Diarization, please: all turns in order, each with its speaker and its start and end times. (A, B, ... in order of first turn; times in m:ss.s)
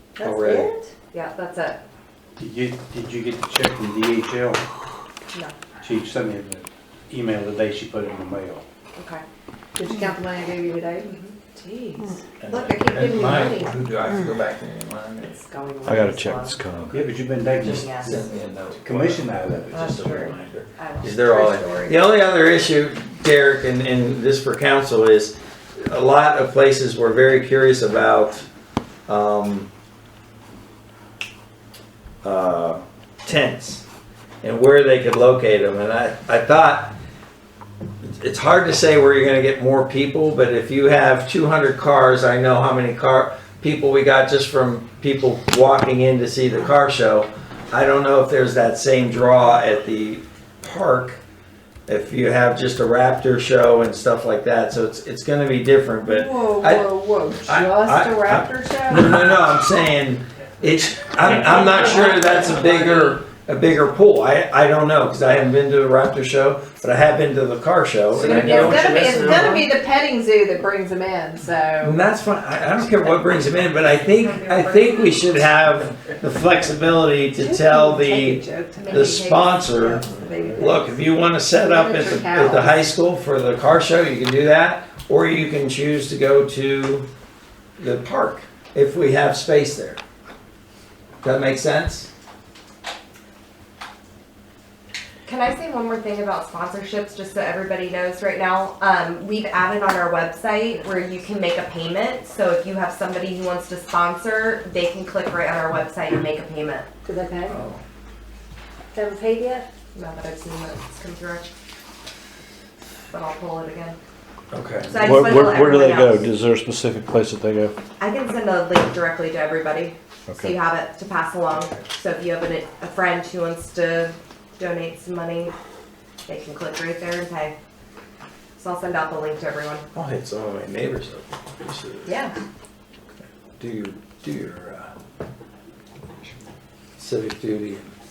0:00.2-0:00.9 A
0:00.2-0:00.7 B
0:01.1-0:01.8 C
0:02.4-0:04.6 D
0:05.8-0:08.6 D
0:09.0-0:09.2 C
0:09.8-0:11.1 A
0:11.0-0:13.7 C
0:12.4-0:15.3 B
0:15.2-0:16.6 C
0:15.8-0:17.0 E
0:16.9-0:19.8 D
0:17.6-0:28.5 B
0:17.6-0:18.2 C
0:19.7-0:22.0 C
0:29.1-0:29.7 B
0:32.2-0:33.8 B
0:34.4-0:37.0 B
0:38.0-0:51.2 B
0:51.9-0:56.9 B
0:56.0-0:59.2 A
0:57.4-1:09.6 B
1:01.8-1:02.6 A
1:08.2-1:12.0 A
1:11.8-1:27.0 B
1:14.1-1:15.6 C
1:17.4-1:19.1 A
1:18.8-1:20.8 C
1:21.6-1:22.7 A
1:27.8-1:30.0 B
1:31.2-1:32.1 B
1:35.2-1:46.9 C
1:47.0-1:47.6 A
1:47.5-1:47.8 B
1:48.9-1:49.6 A
1:49.9-1:51.5 C
1:53.1-1:54.0 C
1:54.5-1:55.1 B
1:54.9-1:56.3 C
1:55.0-1:57.7 E
1:58.0-2:05.5 C
2:00.3-2:00.5 E
2:06.2-2:07.6 C
2:08.6-2:09.8 C
2:09.9-2:12.2 B
2:12.1-2:12.3 A
2:13.6-2:14.9 B
2:17.0-2:17.9 B